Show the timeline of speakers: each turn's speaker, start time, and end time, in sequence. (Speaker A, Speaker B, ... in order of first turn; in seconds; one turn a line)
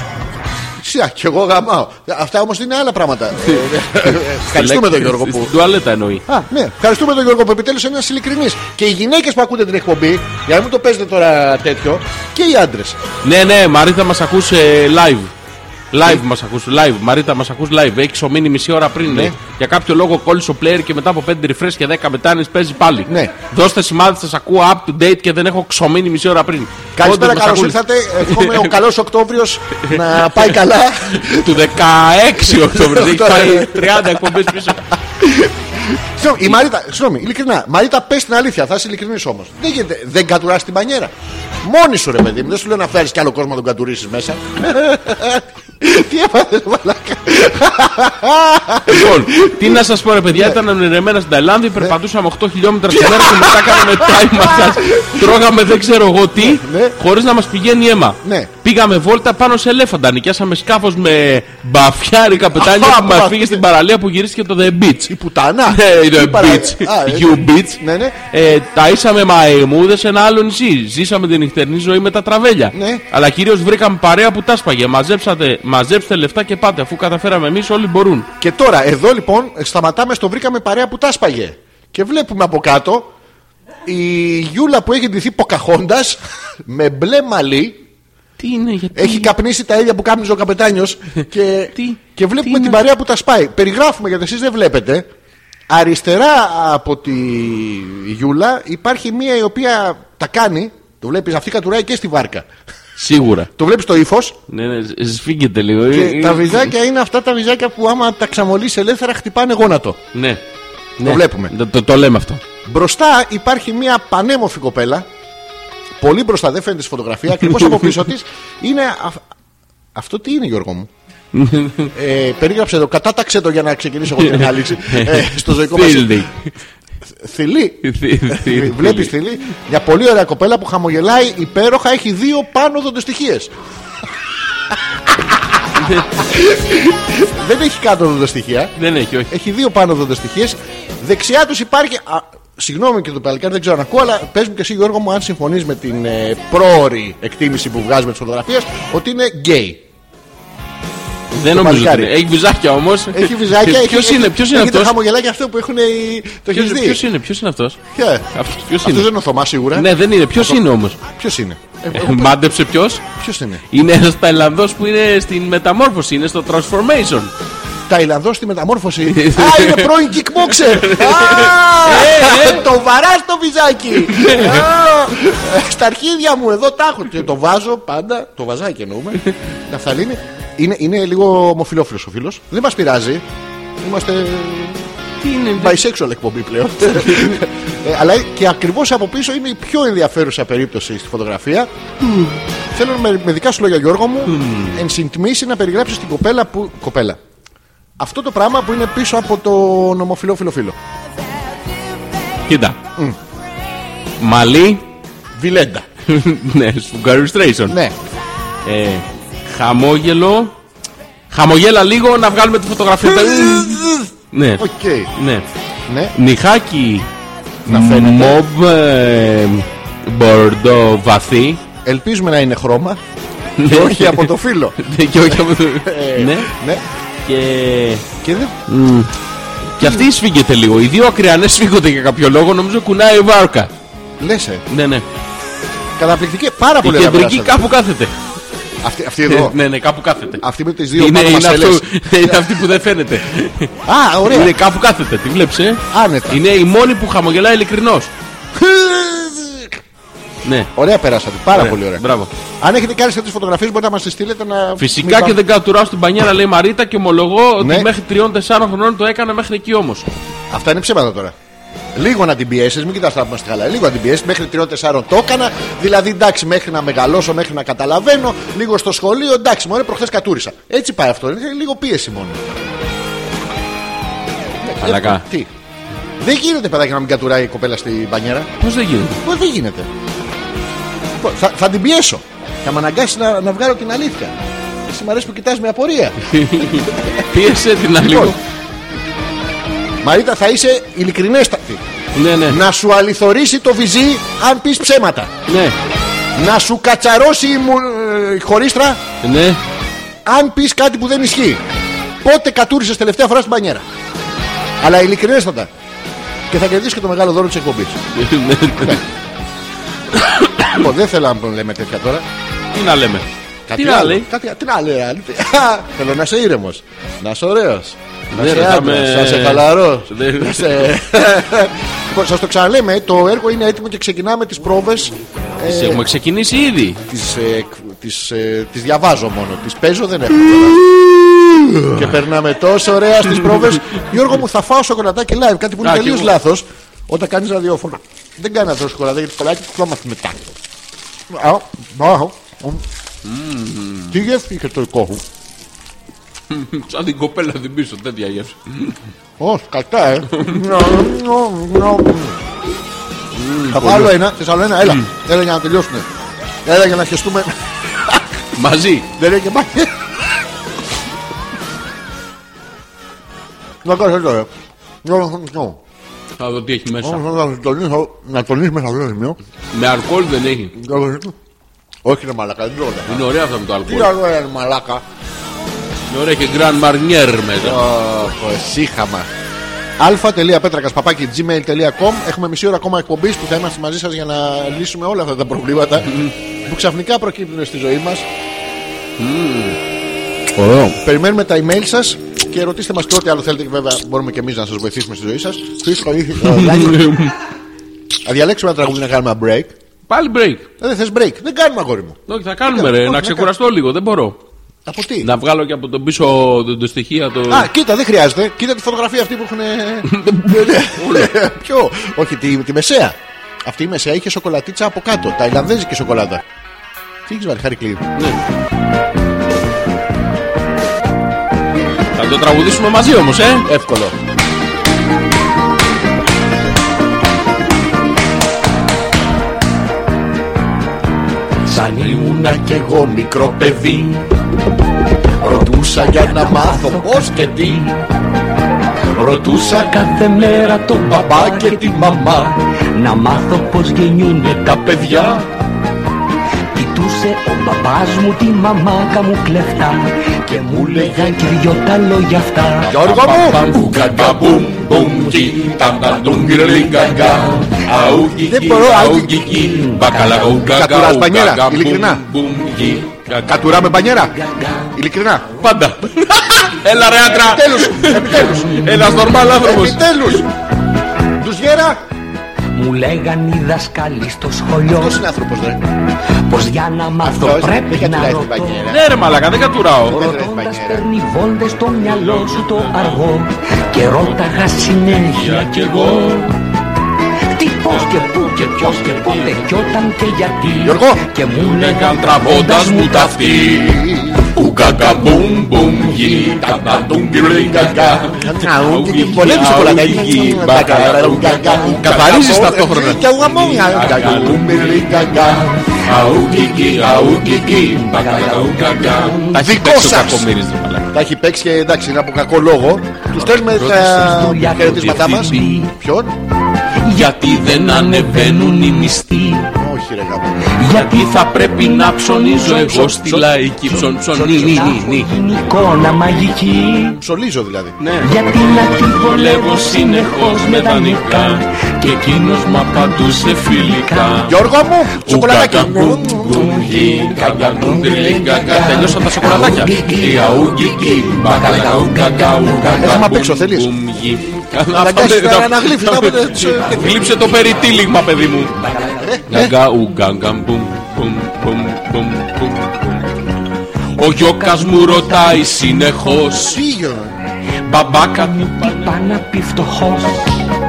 Speaker A: 0.8-5.5
Speaker B: 3.5-6.2
Speaker A: 6.3-13.0
Speaker B: 13.2-15.3
Speaker B: 15.9-28.8
Speaker A: 19.0-19.4
Speaker A: 23.1-23.3
Speaker A: 26.9-31.7
Speaker B: 29.9-30.6
Speaker B: 31.1-34.9
Speaker A: 32.4-34.6
Speaker A: 35.2-50.6
Speaker B: 48.9-65.1
Speaker A: 52.9-55.3
Speaker A: 56.3-57.0
Speaker A: 58.2-58.5
Speaker A: 62.5-63.7
Speaker A: 65.1-68.2
Speaker B: 65.7-78.3
Speaker A: 72.7-73.0
Speaker A: 78.4-83.1
Speaker A: 83.8-87.8
Speaker B: 88.4-89.3
Speaker A: 88.9-95.1
Speaker B: 91.7-92.8
Speaker A: 95.7-102.5
Speaker B: 103.0-103.5
Speaker A: 103.5-104.4
Speaker B: 104.5-106.7
Speaker A: 105.9-110.0
Speaker B: 110.1-110.4
Speaker B: 111.0-112.4
Speaker A: 111.0-111.5
Speaker A: 112.6-115.0
Speaker A: 116.0-119.2
Speaker B: 117.5-117.9
Speaker A: 119.9-120.9
Speaker B: 121.3-121.9
Speaker A: 121.9-126.3
Speaker B: 124.2-126.5
Speaker A: 127.1-133.5
Speaker B: 127.8-129.2
Speaker A: 135.1-138.8
Speaker B: 135.8-136.1
Speaker B: 138.8-139.3
Speaker A: 139.3-149.8
Speaker B: 151.3-154.9
Speaker A: 151.5-152.1
Speaker A: 153.1-157.0
Speaker B: 156.5-157.8
Speaker A: 157.9-162.4
Speaker B: 158.3-159.1
Speaker B: 159.7-161.0
Speaker B: 161.9-163.0
Speaker A: 163.1-163.6
Speaker B: 163.7-167.3
Speaker A: 167.9-183.2
Speaker B: 169.0-172.7
Speaker B: 173.9-174.7
Speaker A: 183.8-184.8
Speaker B: 185.2-185.8
Speaker A: 185.5-191.7
Speaker B: 186.9-187.4
Speaker B: 192.0-192.3
Speaker A: 192.7-197.2
Speaker B: 194.2-194.8
Speaker A: 198.0-200.8
Speaker B: 202.4-202.8
Speaker B: 204.2-204.9
Speaker A: 205.3-205.8
Speaker B: 206.0-207.8
Speaker A: 207.7-207.9
Speaker B: 208.6-210.6
Speaker B: 211.3-214.6
Speaker A: 213.0-215.1
Speaker B: 215.1-215.4
Speaker A: 215.9-216.1
Speaker B: 216.1-217.1
Speaker A: 217.7-218.4
Speaker B: 217.7-221.6
Speaker A: 221.8-223.0
Speaker B: 223.6-226.5
Speaker A: 223.6-224.8
Speaker A: 225.3-226.8
Speaker B: 227.2-228.1
Speaker A: 228.2-228.6
Speaker B: 228.7-229.1
Speaker B: 229.8-233.7
Speaker A: 229.8-230.1
Speaker A: 234.2-234.6
Speaker B: 234.7-235.1
Speaker A: 236.0-237.6
Speaker B: 236.8-238.2
Speaker A: 238.8-239.6
Speaker B: 239.2-240.4
Speaker A: 240.4-242.5
Speaker B: 240.9-243.7
Speaker A: 243.8-244.5
Speaker B: 244.2-248.1
Speaker A: 245.9-246.4
Speaker A: 248.5-249.8
Speaker B: 250.4-250.7
Speaker A: 250.7-252.1
Speaker B: 251.5-252.3
Speaker A: 252.6-255.4
Speaker B: 254.8-260.1
Speaker A: 257.6-257.9
Speaker A: 260.5-261.3
Speaker A: 261.9-272.5
Speaker A: 274.6-275.5
Speaker B: 274.8-275.2
Speaker A: 276.2-278.5
Speaker B: 278.6-279.2
Speaker A: 279.2-279.9
Speaker A: 281.2-284.3
Speaker A: 284.9-286.2
Speaker B: 286.2-288.4
Speaker A: 288.0-288.4
Speaker A: 290.0-291.8
Speaker B: 292.1-292.6
Speaker A: 292.5-295.3
Speaker B: 295.5-295.8
Speaker A: 296.4-299.0
Speaker B: 299.2-299.6
Speaker A: 300.2-301.6
Speaker A: 302.2-303.8
Speaker A: 304.8-305.7
Speaker A: 306.5-308.0
Speaker B: 308.1-309.0
Speaker B: 310.1-310.6
Speaker A: 310.6-312.2
Speaker B: 312.7-314.3
Speaker A: 313.7-326.1
Speaker B: 318.3-320.9
Speaker B: 325.6-327.0
Speaker A: 327.1-340.6
Speaker B: 333.3-333.8
Speaker B: 335.8-336.4
Speaker A: 341.3-342.8
Speaker B: 343.2-344.2
Speaker A: 344.1-345.2
Speaker B: 346.5-349.0
Speaker A: 349.4-352.4
Speaker B: 350.4-350.6
Speaker B: 353.3-354.2
Speaker A: 353.7-356.1
Speaker A: 356.6-358.2
Speaker B: 358.5-359.1
Speaker A: 359.1-359.9
Speaker A: 363.8-364.5
Speaker A: 365.0-365.8
Speaker B: 366.4-367.2
Speaker A: 367.0-369.4
Speaker B: 369.7-370.8
Speaker A: 370.7-371.3
Speaker A: 372.0-373.3
Speaker B: 373.1-374.1
Speaker A: 373.8-375.0
Speaker B: 376.1-377.8
Speaker A: 377.6-379.3
Speaker A: 380.0-388.2
Speaker B: 386.1-386.3
Speaker B: 389.2-389.8
Speaker A: 390.6-397.2
Speaker B: 396.4-397.3
Speaker A: 398.2-399.7
Speaker B: 400.1-400.7
Speaker A: 400.8-403.5
Speaker B: 402.3-404.4
Speaker A: 404.9-405.3
Speaker B: 405.2-407.7
Speaker A: 407.5-416.4
Speaker B: 410.1-411.3
Speaker A: 417.3-418.1
Speaker B: 418.1-418.4
Speaker B: 422.1-423.7
Speaker A: 423.6-424.1
Speaker C: 431.6-433.0
Speaker A: 432.1-434.1
Speaker C: 433.6-434.1
Speaker C: 435.4-438.0
Speaker A: 435.6-437.8
Speaker C: 439.1-445.5
Speaker A: 439.3-439.9
Speaker A: 441.0-442.5
Speaker A: 444.8-445.4
Speaker C: 446.7-452.9
Speaker A: 450.5-451.5
Speaker A: 452.8-453.7
Speaker B: 452.9-463.7
Speaker C: 455.5-457.8
Speaker A: 458.3-459.4
Speaker C: 459.4-460.6
Speaker A: 460.6-462.2
Speaker A: 463.4-464.4
Speaker C: 464.3-464.9
Speaker A: 464.9-465.5
Speaker B: 465.6-470.4
Speaker A: 467.2-470.5
Speaker A: 471.4-472.0
Speaker C: 472.7-475.2
Speaker A: 474.9-475.8
Speaker C: 476.4-478.9
Speaker A: 477.2-479.0
Speaker B: 478.9-480.2
Speaker A: 480.1-481.1
Speaker C: 480.1-486.6
Speaker B: 482.0-483.2
Speaker B: 484.9-486.5
Speaker C: 487.5-493.8
Speaker B: 487.9-490.0
Speaker A: 490.8-491.3
Speaker B: 491.4-511.1
Speaker A: 493.5-494.5
Speaker A: 496.6-505.6
Speaker C: 505.2-509.6
Speaker A: 509.5-510.5
Speaker A: 511.1-516.3
Speaker B: 513.7-515.8
Speaker C: 513.7-515.9
Speaker B: 517.0-519.7
Speaker C: 517.7-519.6
Speaker A: 519.7-520.8
Speaker C: 520.7-527.2
Speaker B: 520.8-525.3
Speaker A: 524.3-525.0
Speaker A: 527.2-528.0
Speaker B: 528.0-534.6
Speaker C: 528.2-534.5
Speaker A: 534.4-537.3
Speaker B: 535.1-548.8
Speaker C: 536.3-543.0
Speaker A: 542.9-543.9
Speaker A: 544.9-547.4
Speaker C: 547.1-549.4
Speaker A: 549.2-549.7
Speaker B: 549.5-553.3
Speaker B: 554.2-556.8
Speaker C: 554.3-556.4
Speaker A: 556.5-557.4
Speaker B: 557.8-559.4
Speaker C: 558.1-560.6